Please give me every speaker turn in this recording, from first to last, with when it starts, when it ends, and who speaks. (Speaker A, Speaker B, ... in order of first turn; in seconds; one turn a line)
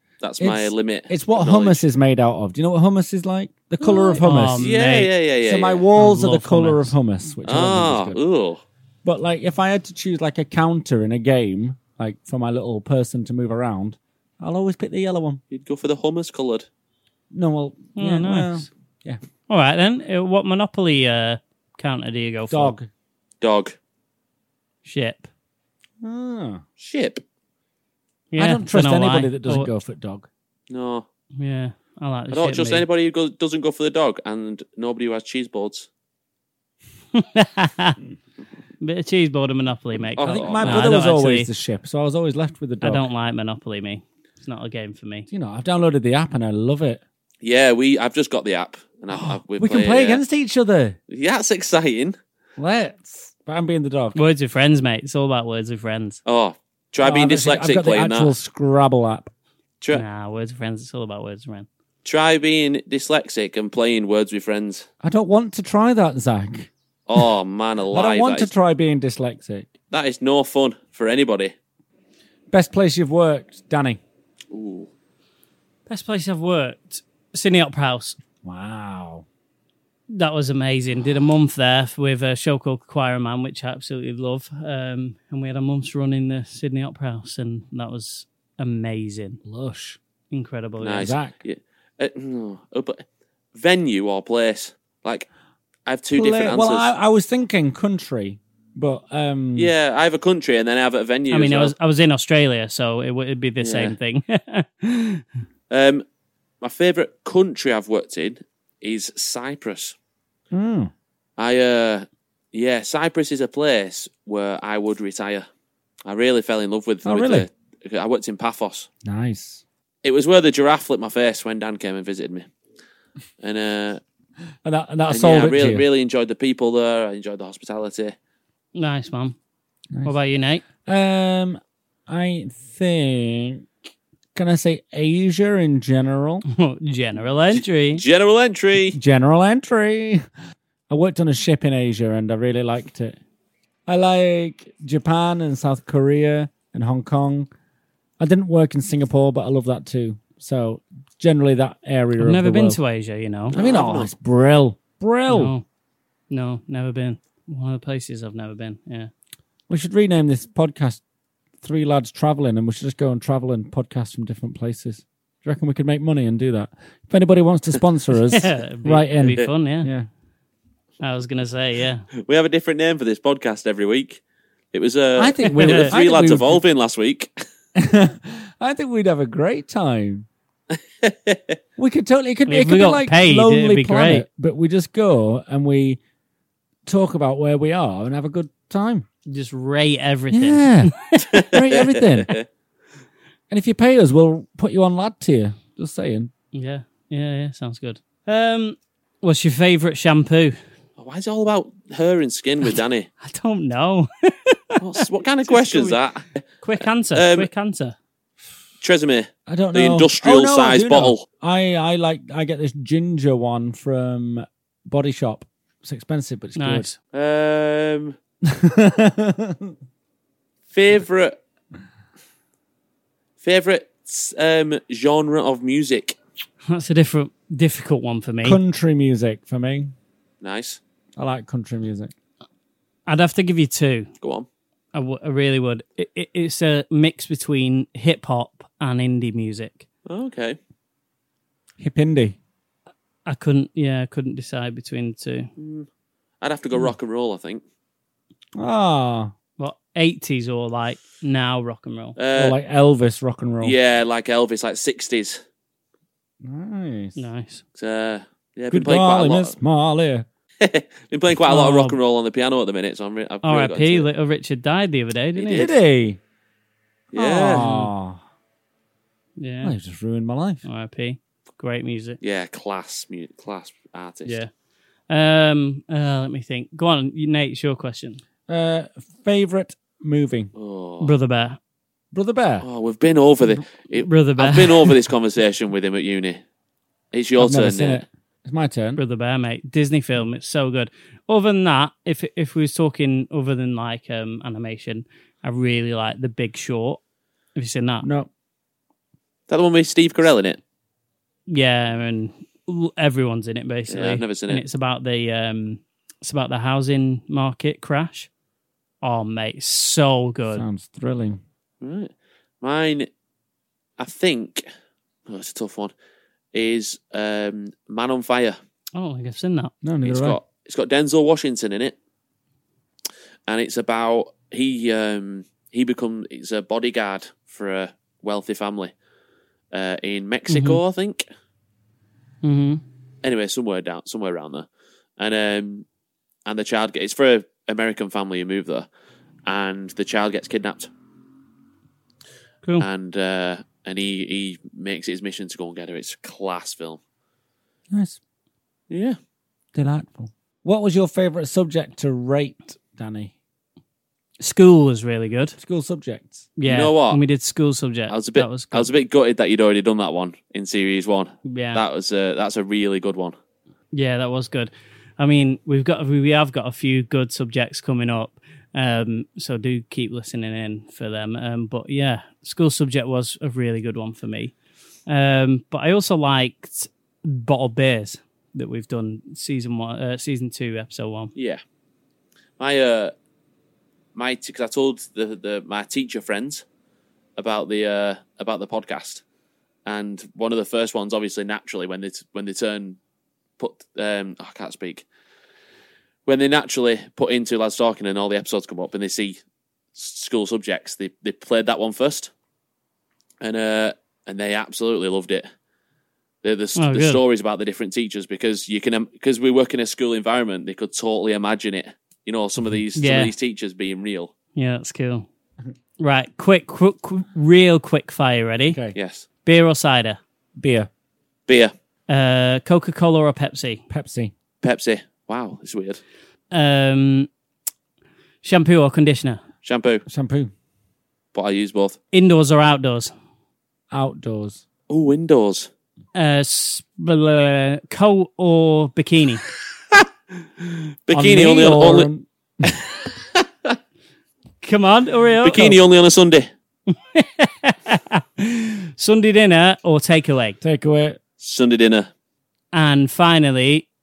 Speaker A: 0.2-1.8
Speaker B: 0.4-4.7
Speaker C: 3.9-5.1
Speaker A: 3.9-5.8
Speaker B: 5.4-8.2
Speaker C: 6.0-6.9
Speaker A: 7.5-8.6
Speaker B: 9.0-15.4
Speaker A: 15.5-16.7
Speaker B: 17.3-19.2
Speaker C: 18.0-18.7
Speaker C: 19.5-22.8
Speaker B: 22.5-22.9
Speaker A: 23.4-23.8
Speaker C: 24.8-25.3
Speaker B: 26.0-26.6
Speaker A: 26.8-27.2
Speaker C: 28.3-29.7
Speaker B: 28.4-30.3
Speaker A: 30.7-31.1
Speaker C: 31.4-32.9
Speaker A: 32.3-35.9
Speaker C: 37.1-38.0
Speaker C: 38.8-41.5
Speaker A: 40.2-41.0
Speaker B: 40.2-43.1
Speaker C: 42.8-45.3
Speaker B: 45.3-47.0
Speaker A: 47.4-50.2
Speaker B: 49.1-51.0
Speaker A: 51.1-52.1
Speaker B: 52.6-54.2
Speaker C: 54.1-56.2
Speaker A: 56.2-58.3
Speaker B: 57.0-59.3
Speaker C: 59.9-61.7
Speaker A: 62.0-64.9
Speaker B: 65.0-67.2
Speaker A: 67.1-68.5
Speaker B: 67.9-69.7
Speaker A: 69.9-71.5
Speaker B: 72.5-74.0
Speaker A: 74.5-74.9
Speaker C: 75.9-78.2
Speaker B: 78.4-79.2
Speaker C: 80.1-89.4
Speaker B: 89.5-90.0
Speaker C: 90.3-91.1
Speaker A: 90.8-93.0
Speaker B: 91.0-91.4
Speaker A: 93.5-95.3
Speaker A: 95.9-96.9
Speaker B: 96.1-99.7
Speaker A: 99.6-101.7
Speaker C: 101.3-105.2
Speaker A: 103.6-104.0
Speaker A: 105.7-106.0
Speaker A: 106.6-110.0
Speaker B: 110.5-110.9
Speaker A: 111.4-115.5
Speaker A: 116.1-118.9
Speaker B: 117.0-117.5
Speaker B: 119.0-119.6
Speaker A: 120.0-122.5
Speaker A: 123.4-124.0
Speaker B: 124.6-125.9
Speaker A: 125.1-128.1
Speaker C: 128.8-129.4
Speaker C: 130.0-130.6
Speaker B: 130.9-133.7
Speaker B: 134.3-136.4
Speaker C: 136.5-138.0
Speaker A: 137.5-139.0
Speaker B: 138.9-140.2
Speaker B: 140.9-143.2
Speaker B: 143.9-147.5
Speaker B: 148.2-152.8
Speaker C: 152.2-153.6
Speaker A: 153.5-154.1
Speaker B: 153.5-155.5
Speaker C: 155.3-155.6
Speaker C: 156.3-159.1
Speaker B: 159.7-161.0
Speaker B: 161.6-170.1
Speaker C: 168.3-169.9
Speaker C: 171.0-172.1
Speaker A: 172.2-174.2
Speaker A: 174.7-177.3
Speaker B: 175.2-176.6
Speaker B: 177.8-180.3
Speaker A: 181.0-181.4
Speaker B: 181.8-186.0
Speaker C: 182.5-184.2
Speaker B: 186.9-189.1
Speaker C: 189.2-190.9
Speaker B: 190.3-190.9
Speaker A: 191.2-192.4
Speaker B: 191.5-192.4
Speaker B: 193.5-196.3
Speaker C: 196.5-200.6
Speaker A: 201.0-203.1
Speaker C: 203.2-206.0
Speaker A: 204.8-207.5
Speaker C: 206.6-208.0
Speaker A: 208.8-211.2
Speaker B: 209.5-216.9
Speaker C: 216.6-217.0
Speaker A: 217.1-218.2
Speaker B: 218.5-219.7
Speaker A: 220.7-221.3
Speaker A: 223.4-226.2
Speaker C: 226.7-228.6
Speaker B: 228.4-229.9
Speaker A: 230.4-230.8
Speaker B: 231.2-232.1
Speaker C: 233.1-234.1
Speaker A: 234.2-234.5
Speaker C: 234.9-239.9
Speaker A: 240.1-240.6
Speaker B: 241.8-242.4
Speaker C: 243.2-245.5
Speaker A: 245.6-245.9
Speaker A: 246.4-247.6
Speaker B: 248.6-249.3
Speaker C: 249.6-252.2
Speaker A: 252.2-252.6
Speaker B: 252.3-253.8
Speaker A: 253.6-255.4
Speaker B: 256.4-257.2
Speaker C: 257.1-257.6
Speaker A: 257.8-259.6
Speaker B: 258.7-260.2
Speaker A: 260.6-264.1
Speaker C: 261.5-262.0
Speaker C: 263.4-265.7
Speaker A: 265.4-265.7
Speaker B: 265.5-266.2
Speaker A: 267.1-267.7
Speaker B: 267.1-268.2
Speaker C: 267.6-267.9
Speaker C: 269.4-269.8
Speaker B: 269.6-270.6
Speaker C: 270.6-272.2
Speaker A: 272.2-274.4
Speaker C: 274.2-274.5
Speaker C: 275.1-278.2
Speaker B: 278.5-280.5
Speaker A: 280.6-281.1
Speaker C: 281.0-281.6
Speaker B: 282.1-282.6
Speaker A: 282.6-286.4
Speaker C: 283.9-285.0
Speaker A: 287.1-288.1
Speaker B: 287.4-289.0
Speaker C: 289.0-297.0
Speaker C: 297.6-298.1
Speaker B: 298.0-298.3
Speaker A: 299.5-300.6
Speaker C: 301.5-308.3
Speaker A: 303.9-304.6
Speaker C: 309.0-310.6
Speaker B: 310.5-311.4
Speaker A: 311.8-312.1
Speaker A: 312.6-313.1
Speaker A: 314.0-314.6
Speaker A: 315.3-315.9
Speaker A: 316.5-318.6
Speaker C: 319.0-319.7
Speaker B: 319.8-320.4
Speaker A: 320.0-322.0
Speaker A: 323.5-328.9
Speaker A: 329.7-331.2
Speaker C: 330.5-330.8
Speaker C: 332.4-332.8
Speaker A: 333.2-334.7
Speaker A: 335.2-335.9
Speaker A: 336.5-338.9
Speaker A: 339.5-340.9
Speaker A: 342.8-347.0
Speaker B: 347.9-348.2
Speaker A: 348.9-349.2
Speaker B: 349.8-353.3
Speaker C: 354.4-355.6
Speaker B: 355.6-356.5
Speaker C: 356.6-358.9
Speaker A: 356.6-357.2
Speaker A: 358.1-363.4
Speaker C: 361.4-361.8
Speaker C: 363.9-374.5
Speaker C: 375.1-381.3
Speaker A: 381.4-381.6
Speaker A: 382.6-383.1
Speaker A: 384.1-386.6
Speaker A: 387.4-389.2
Speaker A: 389.9-393.0
Speaker A: 393.6-395.1
Speaker A: 396.3-399.4
Speaker A: 400.0-402.3
Speaker A: 403.4-405.5
Speaker A: 406.4-414.3
Speaker C: 406.8-407.2
Speaker C: 412.9-413.3
Speaker C: 414.6-415.3
Speaker C: 416.0-418.8
Speaker B: 418.7-419.0
Speaker A: 418.9-419.2
Speaker C: 419.4-420.2
Speaker B: 420.6-420.9
Speaker A: 421.5-421.7
Speaker C: 422.1-423.8
Speaker B: 423.9-424.3
Speaker A: 424.6-426.0
Speaker C: 426.5-427.3
Speaker C: 428.4-429.4
Speaker A: 429.6-430.0
Speaker B: 430.1-430.5
Speaker A: 431.3-432.0
Speaker C: 432.1-433.1
Speaker B: 433.9-434.6
Speaker A: 434.9-435.7
Speaker C: 436.1-439.4
Speaker A: 440.6-442.1
Speaker B: 441.1-442.7
Speaker A: 442.7-443.7
Speaker C: 444.6-445.8
Speaker A: 445.4-446.5
Speaker C: 446.9-450.6
Speaker B: 450.6-451.2
Speaker A: 451.4-452.1
Speaker C: 452.7-453.9